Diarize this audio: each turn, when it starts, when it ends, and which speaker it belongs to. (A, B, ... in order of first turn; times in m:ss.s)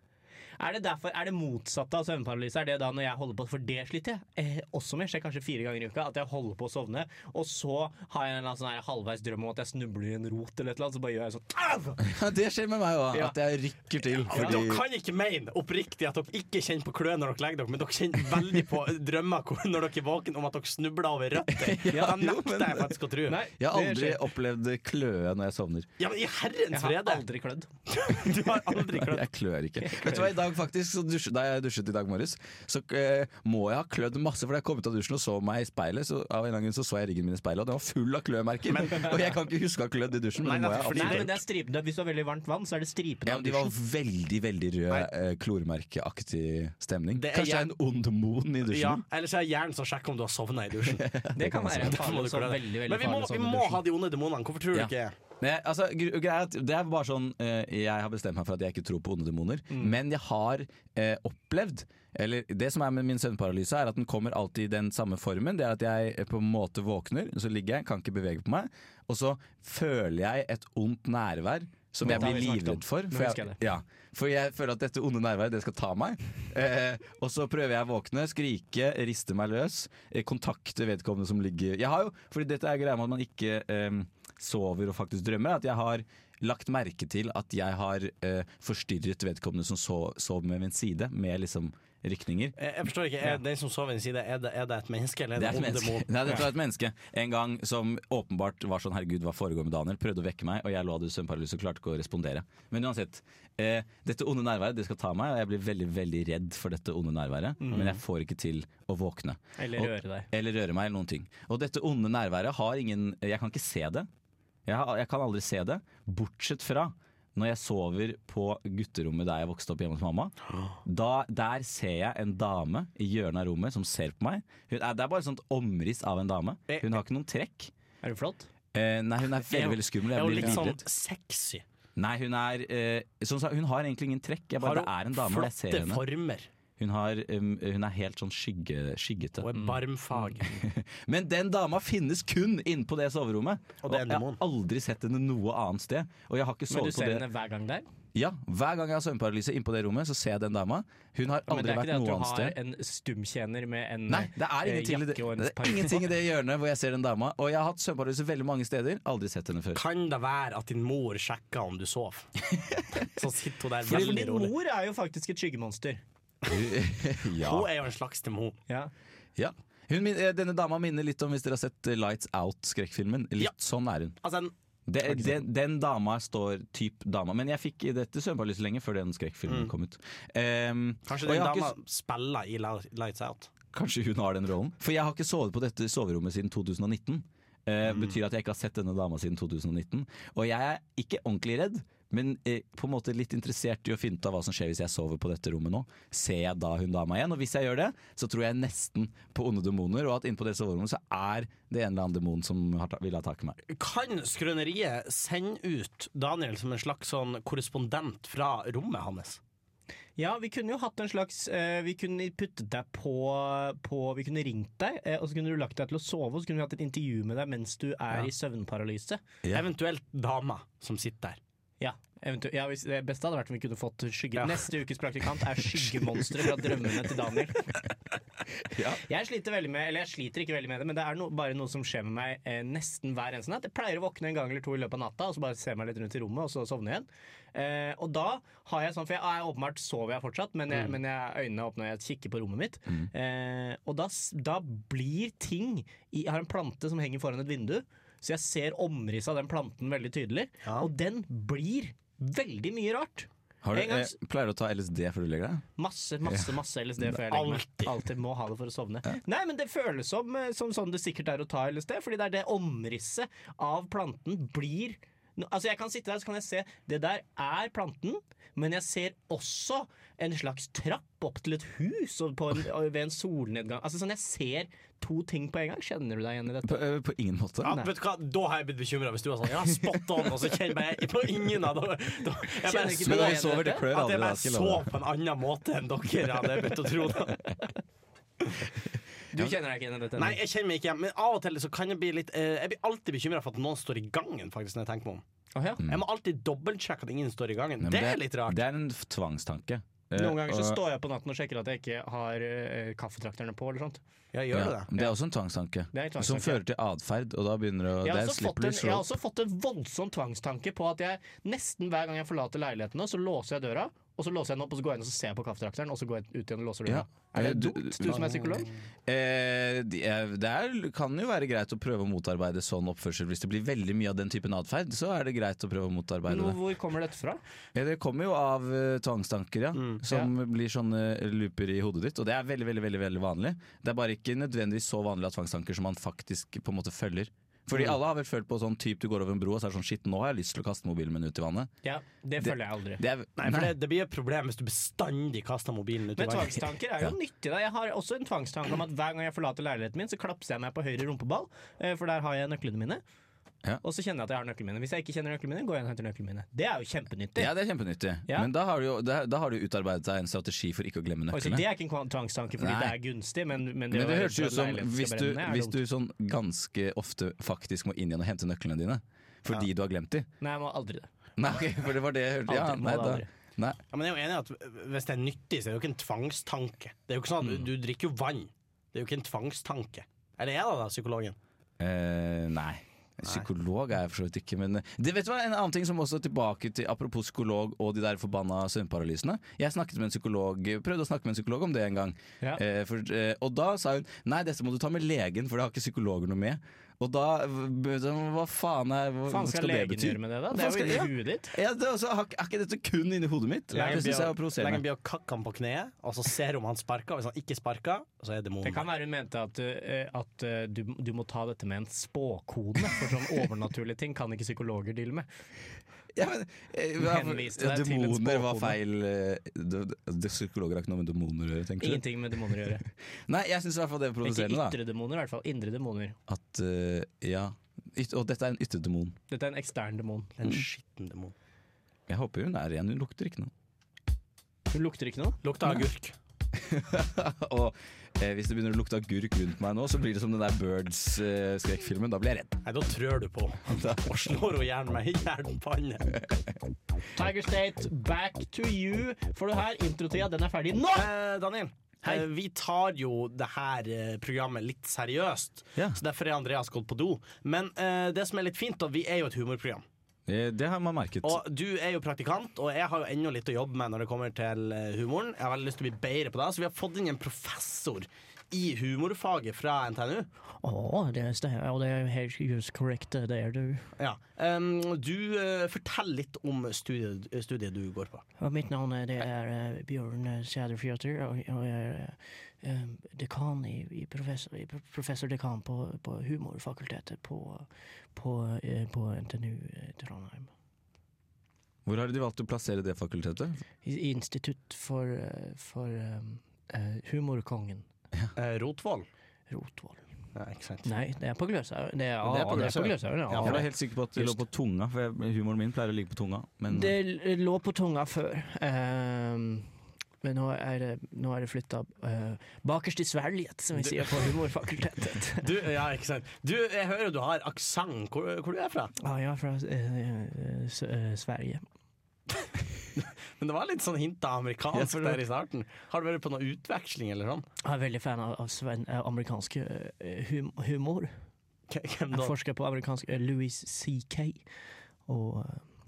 0:00.6-0:12.1 A
0:12.0-0:14.8 B
0:14.3-0:23.4 C
0:14.3-0:14.6 A
0:21.5-0:23.0 B
0:23.3-0:24.2 A
0:23.6-0:25.9 B
0:26.0-0:27.2 C
0:26.7-0:27.7 A
0:27.9-0:29.2 C
0:28.8-0:41.3 B
0:29.8-0:30.3 A
0:38.7-0:39.2 C
0:40.4-0:41.3 C
0:40.9-0:43.7 A
0:43.2-0:49.0 B
0:47.1-0:47.7 C
0:48.7-0:51.0 C
0:50.8-0:52.0 B
0:51.4-0:53.8 A
0:51.8-0:55.1 C
0:54.7-1:32.5 B
1:12.0-1:13.6 A
1:32.6-1:36.4 C
1:35.4-1:54.1 B
1:47.6-1:47.9 A
1:49.6-1:50.3 A
1:54.6-2:07.7 B
2:06.7-2:07.0 C
2:08.0-2:08.5 A
2:08.7-2:10.8 B
2:09.4-2:11.6 C
2:12.0-2:16.0 B
2:14.6-2:16.5 C
2:16.8-2:19.5 B
2:19.4-2:20.5 C
2:20.2-2:27.2 B
2:23.8-2:24.4 C
2:26.7-2:27.8 A
2:28.1-2:32.5 B
2:31.5-2:36.0 A
2:34.1-2:39.8 B
2:39.7-2:42.4 C
2:42.5-2:43.0 B
2:43.0-2:44.5 C
2:43.8-2:46.0 A
2:43.9-2:44.2 B
2:46.4-2:47.7 B
2:47.4-2:48.6 C
2:49.4-2:54.2 B
2:54.2-2:54.5 C
2:54.9-3:01.7 B
2:59.5-2:59.7 C
3:01.0-3:03.5 C
3:03.7-3:23.6 B
3:07.8-3:08.2 C
3:23.7-3:29.4 C
3:30.2-3:39.2 A
3:39.5-3:41.4 C
3:41.8-3:47.7 A
3:44.4-3:44.6 C
3:48.7-3:49.0 B
3:49.0-4:14.1 A
4:10.6-4:10.9 C
4:13.6-4:15.6 B
4:15.8-4:36.8 A
4:17.3-4:17.9 C
4:36.6-4:37.8 B
4:37.6-4:47.4 C
4:42.6-4:43.9 A
4:43.0-4:44.9 B
4:49.3-4:50.4 A
4:50.2-4:55.2 C
4:55.5-4:55.8 A
4:55.9-4:58.6 C
4:57.8-5:00.8 B
5:00.1-5:04.0 A
5:04.3-5:04.9 C
5:04.5-5:09.1 B
5:05.9-5:06.6 A
5:08.0-5:18.7 A
5:16.9-5:18.3 B
5:18.1-5:18.4 C
5:19.1-5:26.6 B
5:26.3-5:27.4 A
5:27.7-5:41.7 B
5:29.7-5:30.0 C
5:41.8-5:43.0 A
5:42.4-5:43.7 B
5:43.4-5:46.7 C
5:46.2-5:53.0 A
5:53.8-5:57.5 A
5:57.4-6:01.6 B
6:01.3-6:05.8 A
6:02.6-6:03.0 B
6:03.9-6:10.3 B
6:10.4-6:11.1 A
6:11.4-6:13.8 B
6:12.5-6:13.3 A
6:13.9-6:21.4 C
6:21.8-6:44.8 B
6:39.3-6:41.5 A
6:43.7-6:48.8 C
6:43.7-6:44.0 A
6:48.6-6:55.2 A
6:56.1-7:02.3 B
6:57.0-6:58.8 A
7:01.8-7:02.8 A
7:03.3-7:04.8 B
7:04.2-7:06.2 A
7:06.3-7:09.2 B
7:09.3-7:10.4 A
7:10.4-7:11.3 C
7:12.1-7:13.5 B
7:14.7-7:15.4 A
7:15.4-7:16.1 C
7:16.5-7:22.6 B
7:22.6-7:26.1 C
7:27.2-7:31.1 A
7:30.9-7:39.8 C
7:40.3-7:41.4 B
7:41.2-7:50.3 C
7:50.6-7:53.9 A
7:54.0-7:58.2 C
7:58.4-8:10.5 A
8:11.8-8:13.6 B
8:13.8-8:17.8 A
8:18.4-8:19.0 C
8:19.5-8:20.0 A
8:20.3-8:20.9 C
8:20.8-8:24.4 A
8:22.2-8:23.6 C
8:23.4-8:26.9 B
8:26.7-8:29.7 A
8:30.2-8:35.5 A
8:35.4-8:38.9 C
8:39.0-8:41.6 A
8:43.0-8:47.4 C
8:44.7-8:45.2 B
8:47.6-8:51.1 A
8:51.7-8:52.3 C
8:52.1-8:54.4 A
8:55.1-8:55.6 A